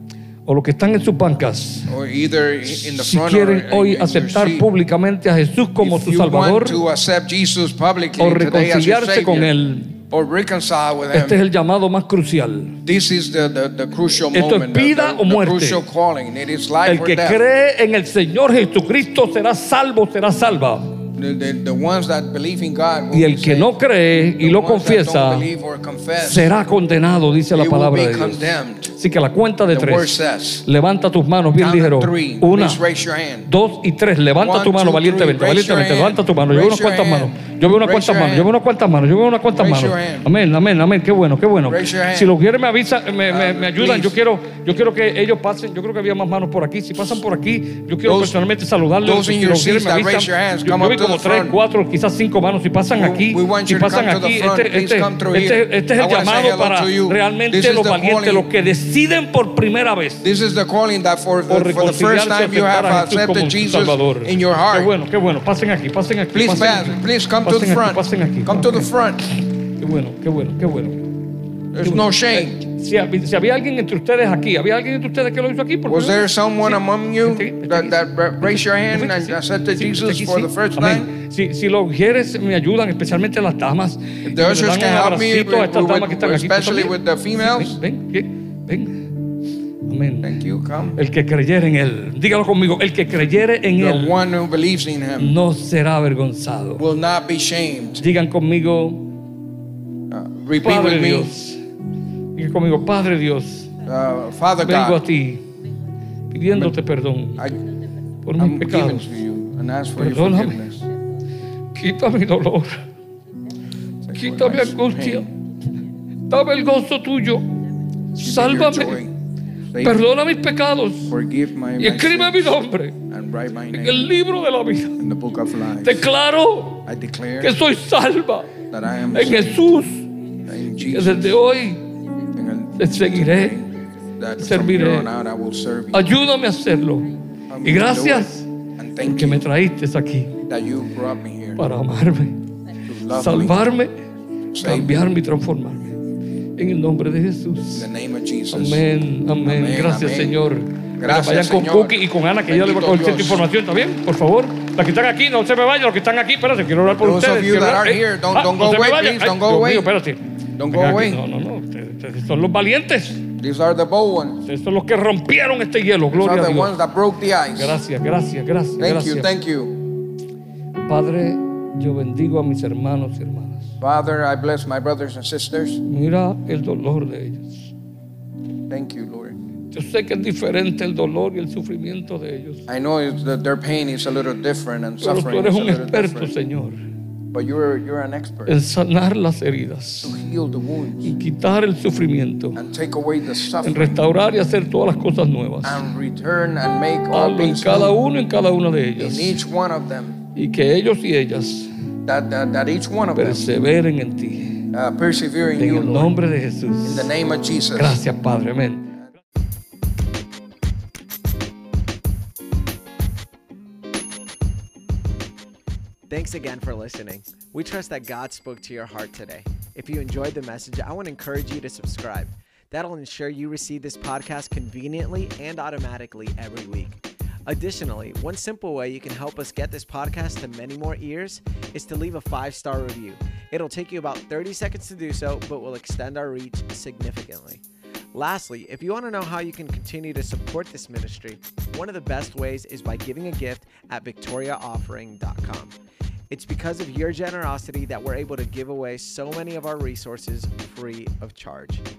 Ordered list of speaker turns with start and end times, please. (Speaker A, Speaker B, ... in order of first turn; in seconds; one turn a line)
Speaker A: 0.5-1.9
Speaker B: 1.9-4.7
Speaker A: 2.7-6.8
Speaker B: 5.8-9.5
Speaker A: 8.2-10.0
Speaker B: 10.1-11.4
Speaker A: 11.1-12.8
Speaker B: 12.8-17.4
Speaker A: 14.3-15.8
Speaker A: 16.9-21.0
Speaker B: 21.1-23.8
Speaker A: 23.1-25.5
Speaker B: 24.3-26.5
Speaker A: 26.2-32.8
Speaker B: 27.5-28.9
Speaker B: 29.7-30.6
Speaker B: 31.6-33.5
Speaker A: 33.5-60.2
Speaker B: 34.4-38.5
Speaker B: 39.5-40.3
Speaker B: 41.7-42.3
Speaker B: 43.3-44.2
Speaker B: 48.0-48.4
Speaker B: 49.0-51.5
Speaker B: 53.0-58.5
Speaker B: 60.2-64.9
Speaker A: 61.5-68.9
Speaker B: 66.3-69.3
Speaker A: 69.8-71.1
Speaker B: 71.7-72.6
Speaker A: 71.8-89.1
Speaker B: 75.8-81.1
Speaker B: 84.2-87.8
Speaker A: 89.8-90.4
Speaker B: 90.2-91.0
Speaker A: 91.0-94.1
Speaker B: 93.8-95.4
Speaker A: 95.2-96.8
Speaker B: 96.8-98.0
Speaker A: 98.0-99.0
Speaker B: 100.1-101.3
Speaker A: 100.6-101.6
Speaker A: 102.3-103.7
Speaker B: 103.8-105.0
Speaker A: 104.6-105.5
Speaker A: 106.3-107.5
Speaker A: 108.2-109.1
Speaker B: 108.4-110.8
Speaker A: 110.0-110.6
Speaker A: 111.7-112.8
Speaker B: 114.0-115.3
Speaker A: 114.1-115.3
Speaker A: 116.3-117.5
Speaker A: 118.1-119.0
Speaker B: 118.2-119.1
Speaker B: 119.7-120.0
Speaker A: 119.8-121.1
Speaker B: 121.1-124.0
Speaker A: 121.8-123.0
Speaker A: 123.7-125.0
Speaker B: 125.0-126.1
Speaker A: 125.8-126.8
Speaker B: 126.8-127.5
Speaker A: 127.4-128.6
Speaker B: 128.7-129.7
Speaker A: 129.1-130.1
Speaker B: 130.4-131.4
Speaker A: 130.8-131.9
Speaker B: 132.3-136.1
Speaker A: 132.8-133.6
Speaker A: 134.4-135.1
Speaker A: 135.9-137.1
Speaker B: 137.5-139.4
Speaker A: 137.6-140.4
Speaker B: 140.5-141.6
Speaker A: 141.6-142.4
Speaker B: 142.9-143.6
Speaker A: 143.1-144.0
Speaker B: 144.5-145.0
Speaker A: 144.6-146.0
Speaker A: 146.6-147.9
Speaker B: 147.7-148.8
Speaker A: 148.5-163.3
Speaker B: 149.4-150.4
Speaker B: 151.0-153.4
Speaker B: 156.9-159.9
Speaker B: 160.6-161.2
Speaker B: 163.3-164.4
Speaker A: 164.4-166.8
Speaker B: 166.1-167.8
Speaker A: 167.6-169.3
Speaker B: 168.8-169.8
Speaker A: 170.8-173.7
Speaker B: 173.8-175.8
Speaker A: 175.8-177.7
Speaker B: 178.7-179.4
Speaker A: 179.7-182.7
Speaker B: 182.7-186.3
Speaker A: 185.0-186.8
Speaker B: 187.3-188.6
Speaker A: 188.5-190.1
Speaker B: 190.0-191.1
Speaker A: 191.0-192.6
Speaker B: 192.6-194.0
Speaker A: 193.6-195.9
Speaker B: 195.6-198.0
Speaker A: 197.1-199.4
Speaker B: 199.0-200.2
Speaker A: 200.3-201.7
Speaker B: 202.1-203.4
Speaker A: 203.1-204.7
Speaker B: 204.7-206.1
Speaker A: 205.6-207.1
Speaker B: 206.8-208.0
Speaker A: 207.8-208.9
Speaker C: 216.1-237.6
Speaker C: 238.1-245.7
Speaker C: 246.3-251.8